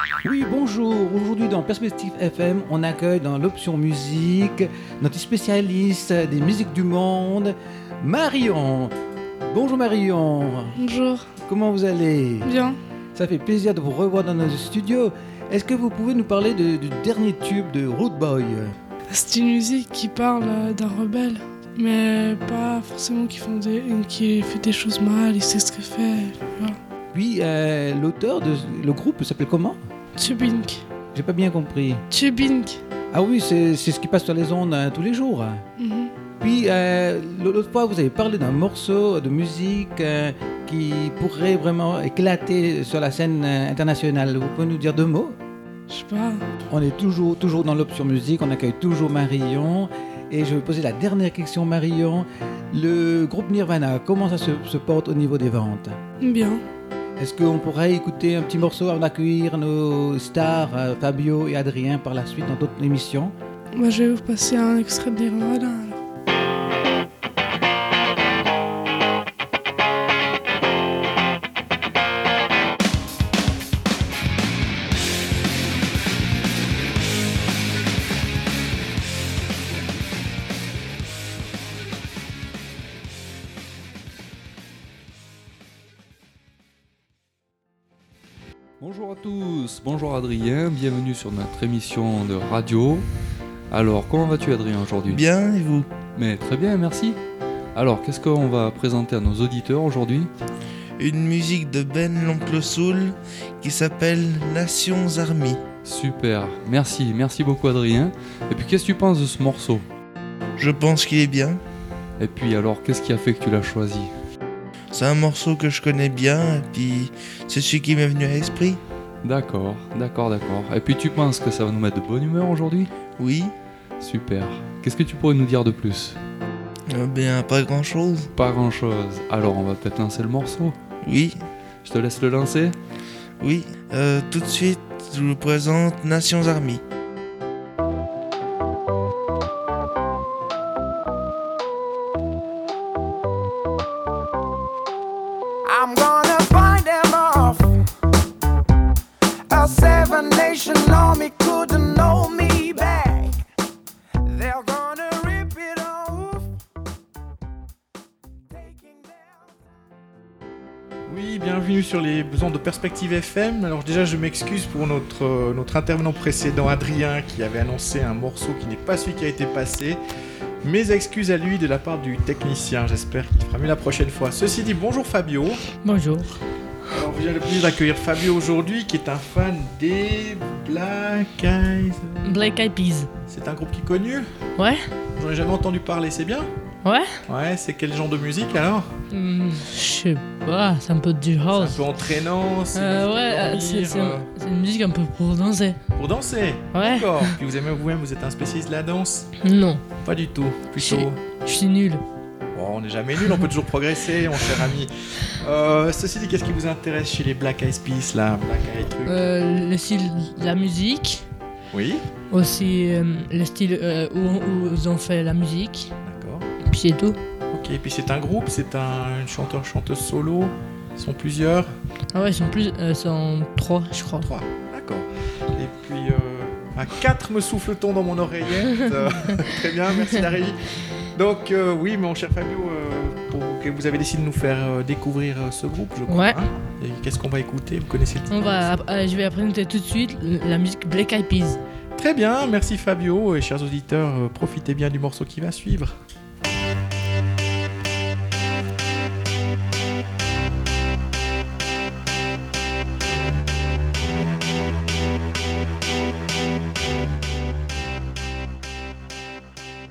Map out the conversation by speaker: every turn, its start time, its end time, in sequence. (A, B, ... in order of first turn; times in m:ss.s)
0:00.2-0:08.9 A
0:09.5-0:10.8 A
0:10.8-0:11.2 B
0:11.5-0:12.5 A
0:12.4-0:12.8 B
0:13.1-0:18.7 A
0:19.1-0:26.8 B
0:27.1-0:29.8 A
0:30.2-0:30.8 B
0:31.1-0:32.0 A
0:32.1-0:32.8 B
0:33.1-0:35.6 A
0:35.8-0:36.1 B
0:36.4-0:45.4 A
0:45.9-0:46.4 B
0:46.7-0:56.0 A
0:56.2-0:56.6 B
0:57.2-1:03.3 A
1:03.7-1:06.0 B
1:28.8-1:33.1 C
1:33.7-1:35.2 C
1:35.0-1:36.0 D
1:36.1-1:37.2 C
1:37.7-1:40.3 C
1:41.0-1:45.6 D
1:45.8-1:49.8 C
1:50.6-1:51.6 D
1:52.2-1:54.1 C
1:54.9-1:58.8 D
1:59.2-2:02.9 C
2:03.2-2:03.5 D
2:04.0-2:06.2 C
2:06.9-2:08.3 D
2:08.3-2:10.7 C
2:11.0-2:11.4 D
2:11.8-2:12.8 C
2:13.4-2:16.8 D
2:25.6-2:27.8 E
2:29.5-2:33.4 E
2:34.2-2:36.5 E
2:38.5-2:39.7 E
2:41.1-2:50.0 F
2:50.6-2:55.6 F
2:55.8-2:56.3 G
2:56.9-3:02.1 F
3:02.2-3:03.1 G
3:03.3-3:04.3 F
3:04.6-3:04.9 G
3:05.2-3:06.5 F
3:06.8-3:07.2 G
3:07.3-3:08.9 F
3:09.1-3:11.8 G
3:11.6-3:14.2 F
3:12.7-3:15.8 G
3:16.0-3:19.3 F
3:16.7-3:17.4 G
3:19.4-3:19.8 G
3:20.0-3:21.2 F
3:20.7-3:22.0 G
3:22.5-3:29.2 F
3:29.0-3:31.2 G
3:31.7-3:32.0 F
3:32.3-3:35.9 G
3:36.0-3:36.5 F
3:36.6-3:37.2 G
3:37.5-3:41.7 F
3:42.1-3:44.3 G
3:44.2-3:50.6 F
3:51.1-3:58.3 F
3:56.1-3:56.4 G
3:58.3-4:01.6 G
4:02.0-4:05.9 F